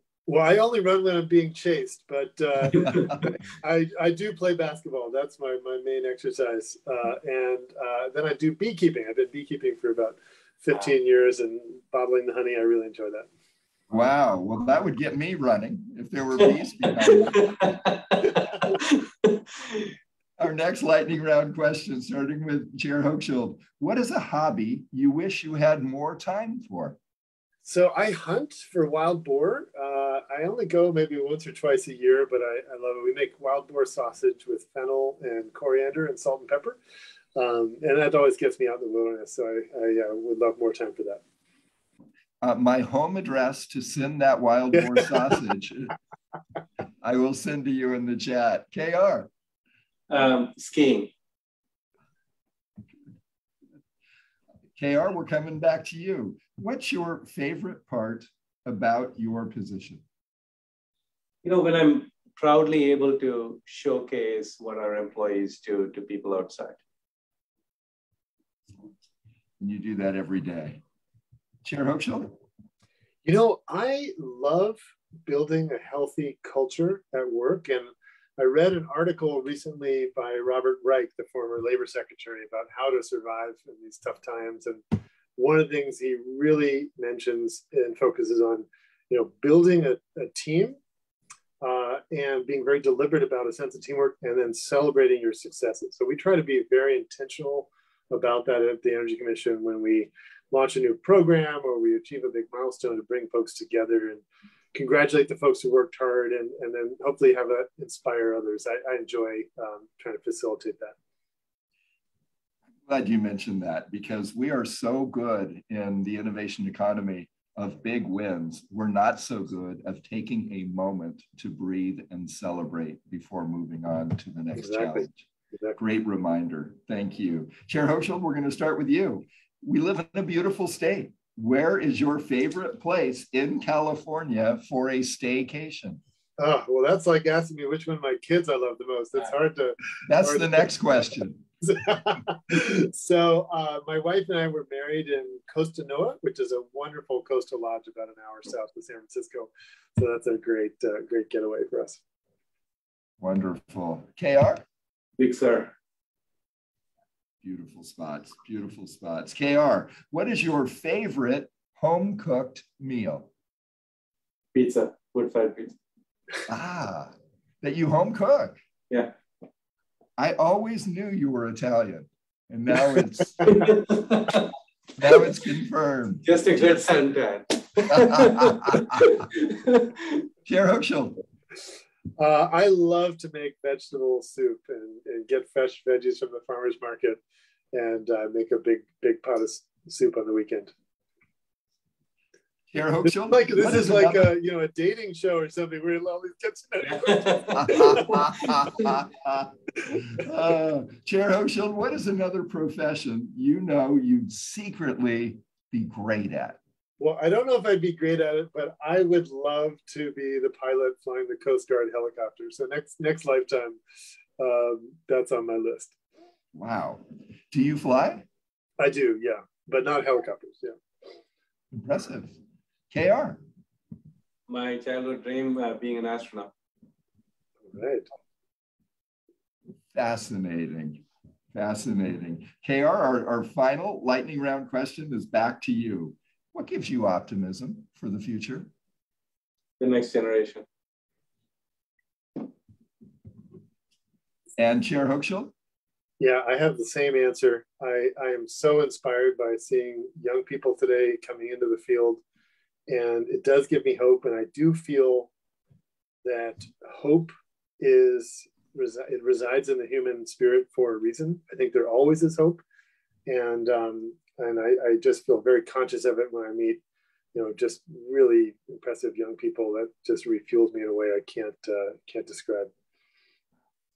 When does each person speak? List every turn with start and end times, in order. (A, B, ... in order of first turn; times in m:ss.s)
0:00.3-0:13.3 A
0:13.9-0:17.7 B
0:17.4-0:19.4 C
0:20.4-0:27.0 B
0:27.6-0:36.8 A
0:37.4-0:41.2 A
0:42.4-0:46.0 B
0:47.0-0:49.3 B
0:50.1-0:51.1 C
0:54.8-1:00.0 B
1:01.4-1:06.8 C
1:09.6-1:10.8 B
1:11.6-1:12.4 B
1:13.2-1:30.8 A
1:31.6-1:44.2 A
1:44.7-1:51.0 A
1:52.9-2:05.2 B
2:04.6-2:05.1 A
2:05.8-2:16.0 B
2:16.4-2:20.6 A
2:20.1-2:21.4 B
2:21.6-2:32.0 A
2:33.2-2:34.6 B
2:35.2-2:35.7 C
2:37.4-2:43.3 B
2:44.6-2:45.8 C
2:46.5-2:48.6 B
2:50.2-2:53.7 B
2:53.5-2:54.5 C
2:55.0-2:56.3 B
2:56.2-2:59.9 C
2:57.9-2:59.3 B
3:00.5-3:01.2 B
3:02.2-3:07.2 A
3:07.7-3:10.7 A
3:12.7-3:14.3 B
3:13.2-3:18.8 A
3:17.0-3:17.8 C
3:17.5-3:26.6 B
3:27.0-3:33.8 A
3:34.4-3:35.9 A
3:36.5-3:38.2 B
3:38.8-3:40.8 A
3:41.7-3:42.4 B
3:42.9-3:43.4 B
3:44.5-3:46.5 C
3:47.7-3:48.1 A
3:49.9-3:58.7 B
3:59.8-4:00.6 C
4:04.6-4:05.5 B
4:06.2-4:12.2 A
4:12.9-4:15.3 A
4:16.2-4:22.6 A
4:23.3-4:26.8 A
4:27.3-4:32.7 A